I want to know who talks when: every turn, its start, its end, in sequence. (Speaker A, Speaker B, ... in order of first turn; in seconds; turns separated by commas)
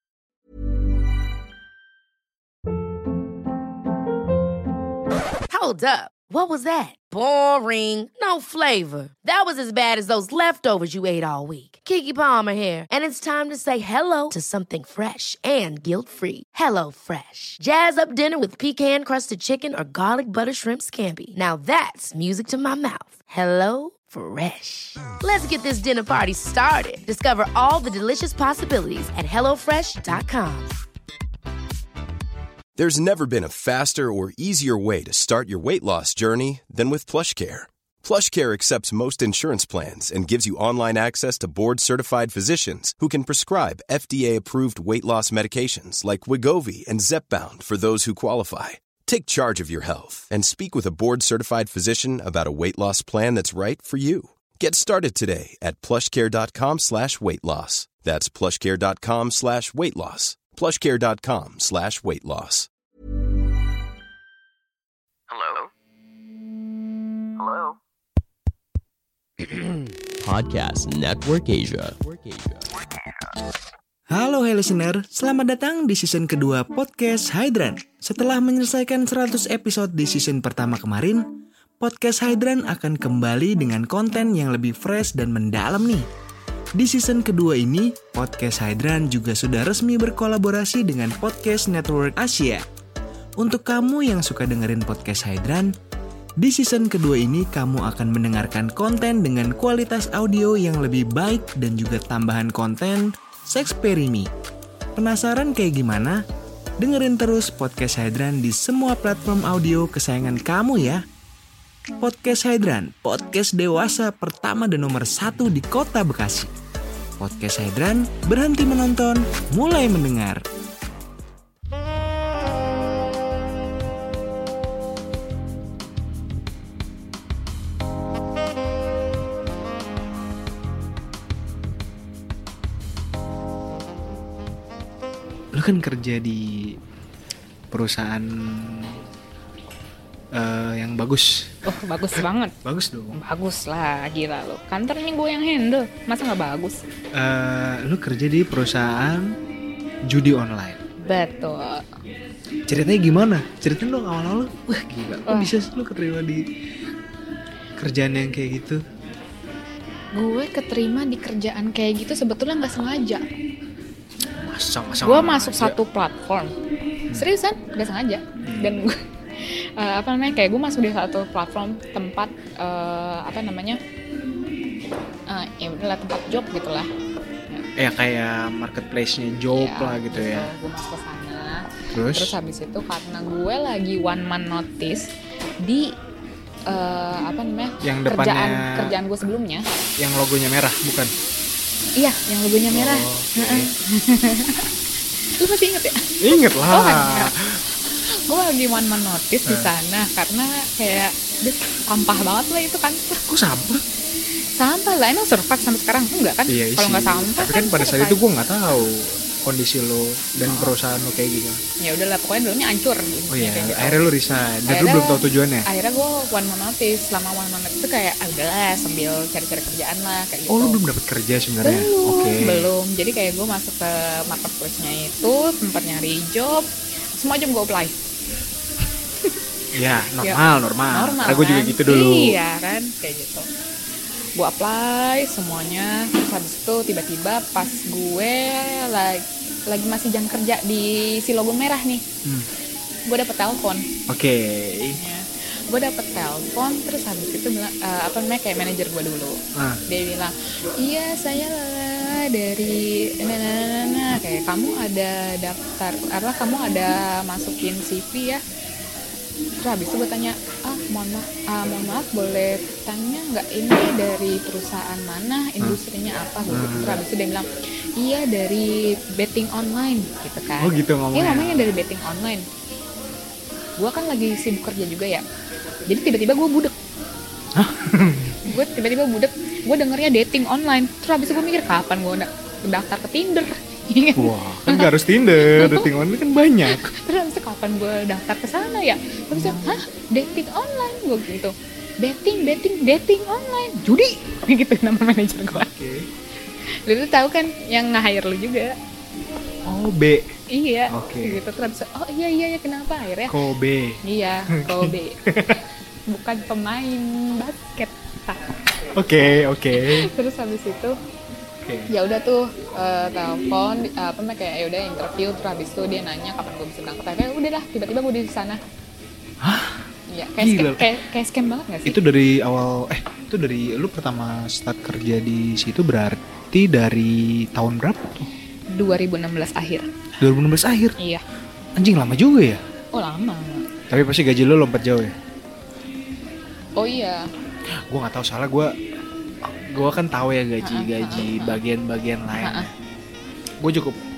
Speaker A: 5.5-30.7, Speaker B: 32.8-62.7, Speaker C: 70.2-72.6, Speaker D: 74.1-81.2, Speaker D: 81.8-86.1, Speaker D: 86.8-92.6, Speaker D: 93.4-95.7, Speaker D: 96.4-104.3, Speaker D: 105.0-106.2, Speaker D: 106.8-111.0, Speaker D: 112.0-116.5, Speaker D: 117.2-120.4, Speaker E: 135.5-136.5, Speaker E: 137.7-139.0, Speaker E: 140.3-141.4, Speaker F: 141.6-142.5, Speaker E: 142.6-143.2, Speaker F: 143.1-146.8, Speaker E: 147.1-149.3, Speaker E: 150.1-150.8, Speaker F: 151.0-151.8, Speaker E: 152.7-156.4, Speaker F: 155.3-155.6, Speaker E: 157.8-158.8, Speaker F: 160.1-163.2, Speaker E: 164.4-165.8, Speaker F: 165.0-166.5, Speaker F: 167.1-173.8, Speaker E: 168.4-168.7, Speaker F: 175.3-176.9, Speaker E: 177.8-180.5, Speaker F: 179.5-185.1, Speaker E: 181.9-182.3, Speaker F: 185.6-185.9, Speaker F: 186.7-189.7, Speaker E: 187.8-188.9, Speaker E: 190.0-191.1, Speaker F: 192.0-194.7, Speaker E: 192.7-193.7, Speaker F: 195.4-203.2, Speaker E: 196.2-197.6, Speaker E: 199.4-199.7, Speaker E: 203.3-203.8, Speaker F: 204.5-208.2, Speaker E: 206.5-211.6, Speaker F: 210.4-210.7, Speaker F: 211.8-214.0, Speaker E: 213.3-215.7, Speaker F: 214.7-220.8, Speaker E: 220.5-222.7, Speaker F: 221.6-228.1, Speaker E: 229.7-232.4, Speaker F: 230.2-233.4, Speaker F: 234.3-242.0, Speaker F: 243.1-243.8, Speaker E: 244.1-245.0, Speaker F: 244.9-258.4, Speaker F: 259.6-272.4, Speaker E: 266.5-267.0, Speaker E: 270.6-271.7, Speaker F: 273.8-275.2, Speaker F: 275.9-276.7, Speaker E: 277.5-278.4, Speaker F: 278.5-285.9, Speaker E: 284.1-286.9, Speaker F: 286.7-295.7, Speaker E: 289.3-289.7, Speaker E: 295.5-296.1, Speaker F: 296.9-298.8, Speaker E: 299.6-300.2, Speaker F: 300.5-303.3, Speaker E: 300.9-301.4, Speaker E: 303.3-304.0, Speaker F: 304.0-305.2, Speaker E: 304.7-305.6, Speaker F: 306.1-308.5, Speaker E: 308.9-310.1, Speaker F: 309.7-310.9, Speaker E: 311.6-311.9, Speaker F: 311.9-318.6, Speaker E: 319.4-319.8, Speaker F: 320.1-322.0, Speaker E: 320.4-320.9, Speaker E: 321.9-328.3, Speaker F: 328.7-329.9, Speaker E: 330.2-330.9, Speaker F: 331.0-331.2, Speaker E: 331.8-332.6, Speaker F: 332.9-333.6, Speaker E: 333.9-335.1, Speaker F: 336.8-337.2, Speaker E: 337.9-338.7, Speaker E: 339.4-342.7, Speaker F: 340.6-341.6, Speaker F: 342.3-342.7, Speaker E: 343.6-343.9